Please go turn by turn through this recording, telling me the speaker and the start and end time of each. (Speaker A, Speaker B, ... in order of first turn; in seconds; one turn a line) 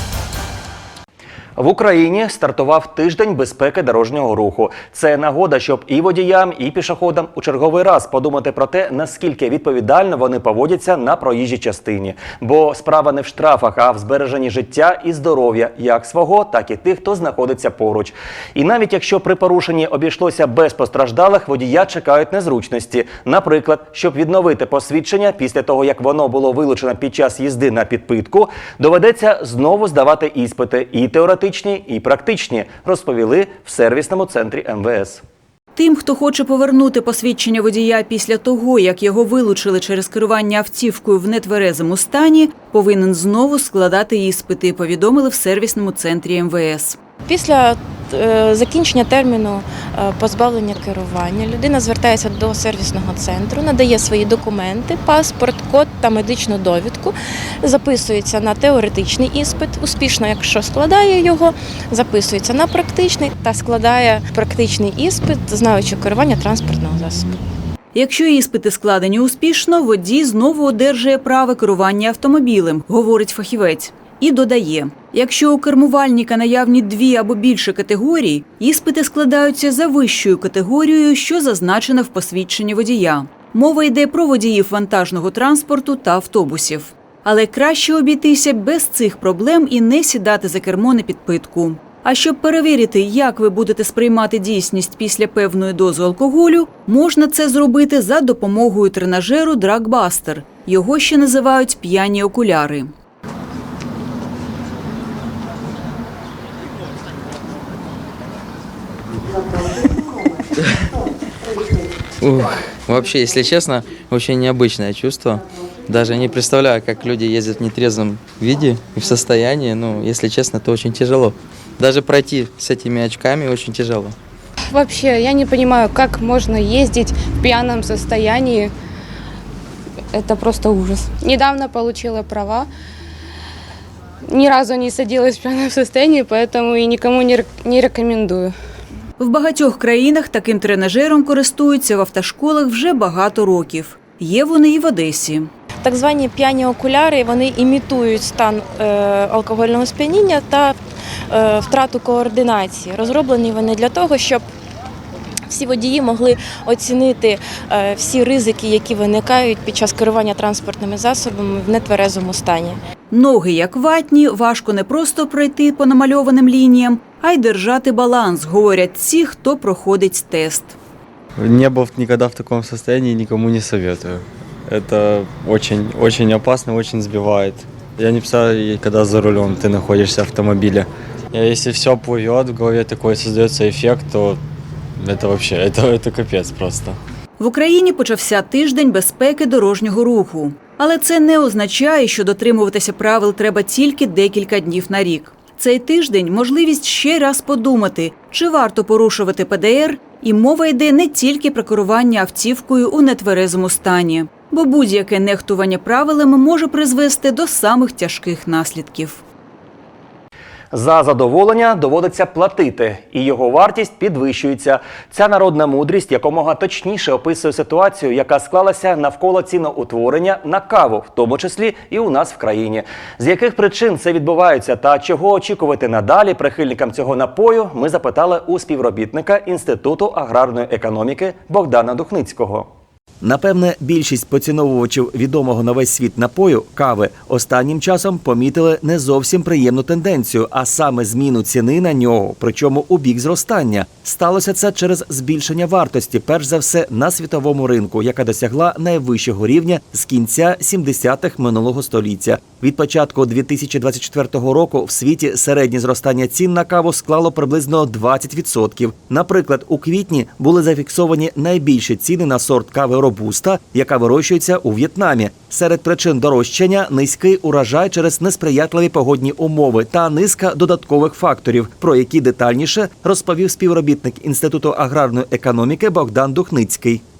Speaker A: 1.6-35.2
Speaker B: 35.8-47.0
Speaker C: 47.3-67.3
Speaker B: 67.9-102.9
Speaker D: 112.2-124.1
Speaker E: 124.7-128.7
Speaker E: 130.1-132.7
Speaker E: 134.3-138.5
Speaker B: 139.2-145.5
Speaker C: 145.8-150.8
Speaker C: 151.3-154.4
Speaker C: 155.5-162.8
Speaker B: 163.1-170.8
Speaker F: 171.4-184.4
Speaker F: 185.0-187.0
Speaker B: 187.4-209.2
Speaker A: 210.7-232.7
Speaker A: 233.2-277.0